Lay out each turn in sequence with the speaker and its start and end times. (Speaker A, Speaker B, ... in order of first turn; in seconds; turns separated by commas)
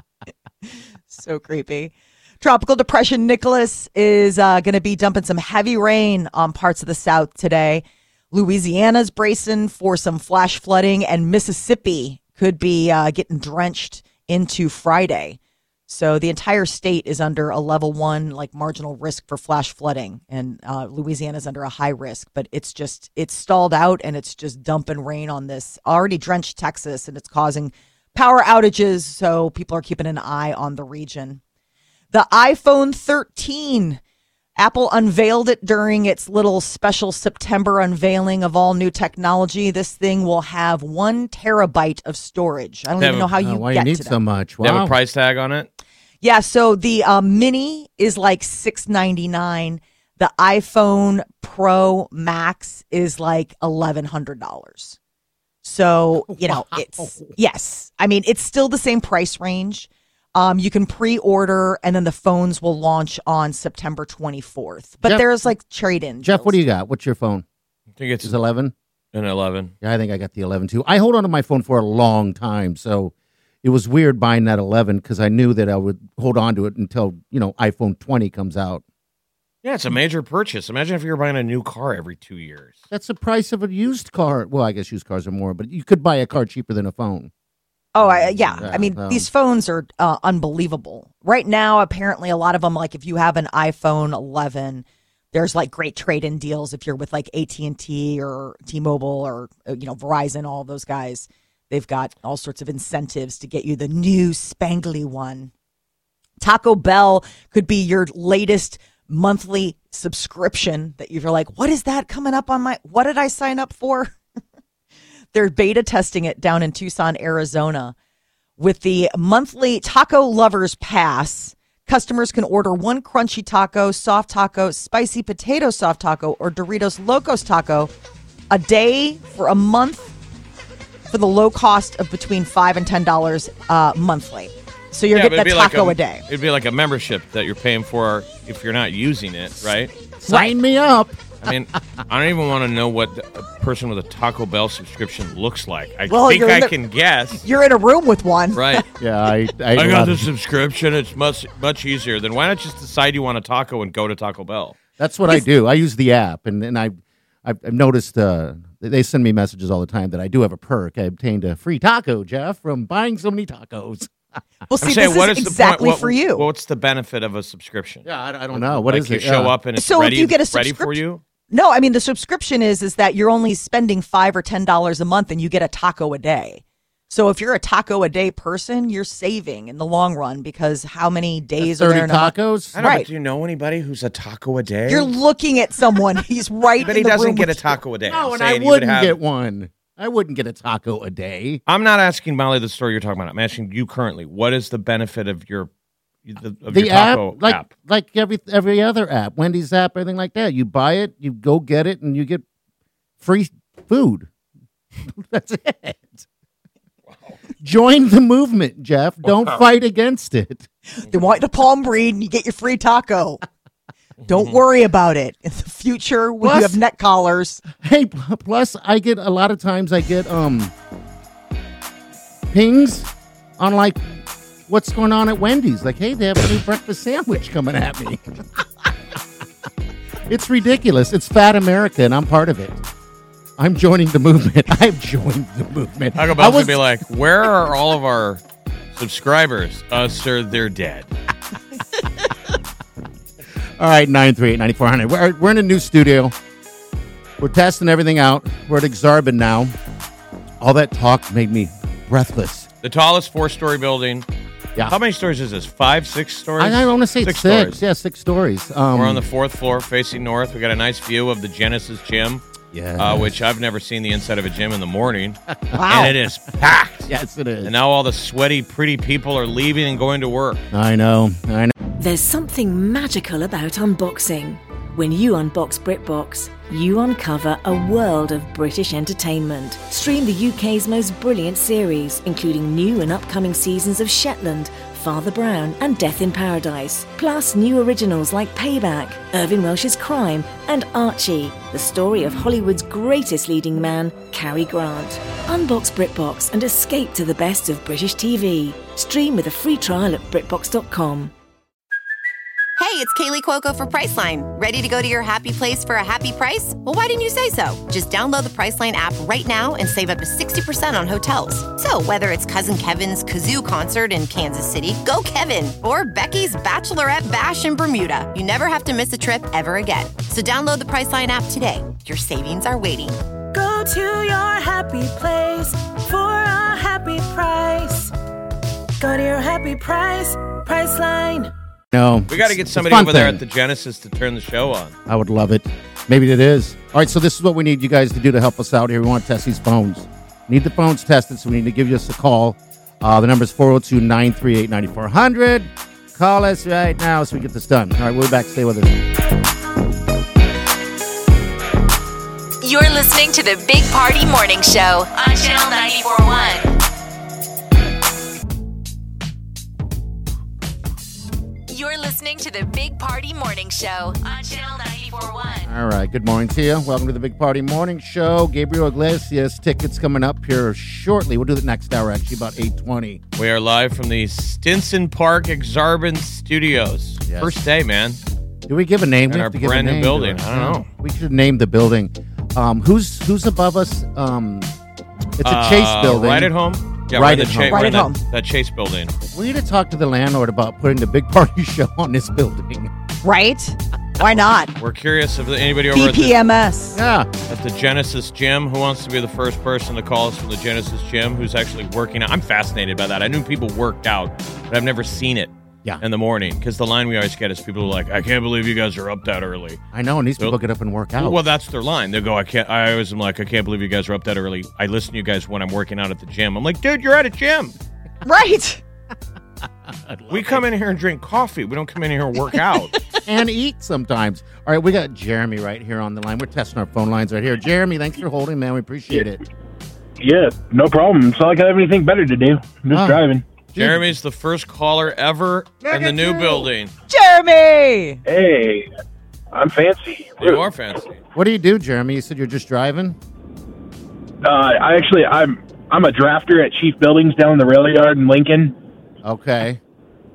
Speaker A: 1.1-31.4, Speaker A: 32.1-34.0, Speaker A: 34.6-44.2, Speaker B: 43.0-43.3, Speaker C: 43.4-45.0, Speaker B: 44.6-45.7, Speaker A: 46.2-55.0, Speaker A: 55.6-66.6, Speaker C: 56.3-57.3, Speaker C: 66.2-67.5, Speaker B: 68.0-68.3, Speaker C: 68.2-68.7, Speaker B: 69.1-69.7, Speaker C: 69.8-78.8, Speaker B: 79.6-82.8, Speaker C: 82.9-87.3, Speaker A: 87.9-105.5, Speaker C: 88.0-89.3, Speaker A: 106.4-114.2, Speaker A: 115.3-118.0, Speaker A: 118.6-127.9, Speaker A: 128.5-130.1, Speaker A: 131.1-136.2, Speaker B: 135.1-139.9, Speaker C: 140.2-141.3, Speaker A: 140.3-140.5, Speaker B: 141.4-147.4, Speaker A: 146.1-146.7, Speaker A: 147.4-148.8, Speaker B: 148.5-148.8, Speaker C: 149.0-150.3, Speaker B: 149.8-154.8, Speaker C: 155.0-164.1, Speaker A: 164.7-166.5, Speaker B: 164.8-171.2, Speaker C: 168.1-169.5, Speaker A: 169.8-171.0, Speaker A: 171.5-183.1, Speaker C: 181.6-182.8, Speaker B: 182.8-185.1, Speaker A: 184.9-187.8, Speaker B: 186.8-189.2, Speaker C: 188.1-191.6, Speaker B: 191.7-195.7, Speaker B: 196.2-197.7, Speaker C: 196.7-202.4, Speaker C: 203.2-204.3, Speaker C: 205.1-206.3, Speaker C: 207.6-210.7, Speaker A: 210.9-213.4, Speaker A: 214.3-217.6, Speaker C: 216.4-216.8, Speaker C: 217.8-220.7, Speaker C: 222.5-224.1, Speaker C: 224.7-228.6, Speaker C: 230.3-232.8, Speaker C: 233.6-236.8, Speaker B: 236.2-238.4, Speaker B: 238.9-241.1, Speaker C: 243.8-246.3, Speaker C: 247.4-249.8, Speaker C: 250.6-252.7, Speaker B: 252.8-254.3, Speaker B: 254.9-257.8, Speaker C: 256.6-259.2, Speaker B: 258.9-262.4, Speaker C: 262.7-263.4, Speaker B: 263.0-267.1, Speaker A: 265.7-266.1, Speaker C: 266.6-267.7, Speaker B: 267.6-270.6, Speaker C: 270.7-271.7, Speaker D: 272.0-301.3, Speaker E: 302.8-323.2, Speaker D: 323.5-328.1, Speaker D: 329.0-331.5, Speaker C: 331.9-333.4, Speaker B: 332.3-334.9, Speaker C: 335.1-349.0, Speaker F: 352.6-356.8, Speaker F: 361.7-365.7, Speaker C: 365.7-373.2, Speaker B: 373.4-378.2, Speaker C: 377.2-377.6, Speaker C: 378.7-384.7, Speaker B: 379.3-380.9, Speaker C: 385.4-386.5, Speaker B: 385.4-389.1, Speaker C: 387.1-388.0, Speaker A: 387.7-388.2, Speaker C: 389.3-392.9, Speaker A: 393.2-394.7, Speaker B: 394.8-396.4, Speaker A: 395.9-397.0, Speaker C: 396.9-397.3, Speaker B: 397.5-409.8, Speaker C: 409.9-411.4, Speaker B: 411.2-417.7, Speaker A: 418.2-418.8, Speaker C: 419.9-420.6, Speaker B: 420.3-422.9, Speaker C: 423.3-429.4, Speaker G: 430.2-433.5, Speaker C: 432.9-433.2, Speaker C: 433.7-434.1, Speaker B: 433.8-436.9, Speaker A: 437.1-438.2, Speaker G: 438.3-438.9, Speaker G: 439.5-440.6, Speaker B: 440.4-441.1, Speaker C: 441.4-443.2, Speaker G: 444.4-448.8, Speaker C: 449.2-449.8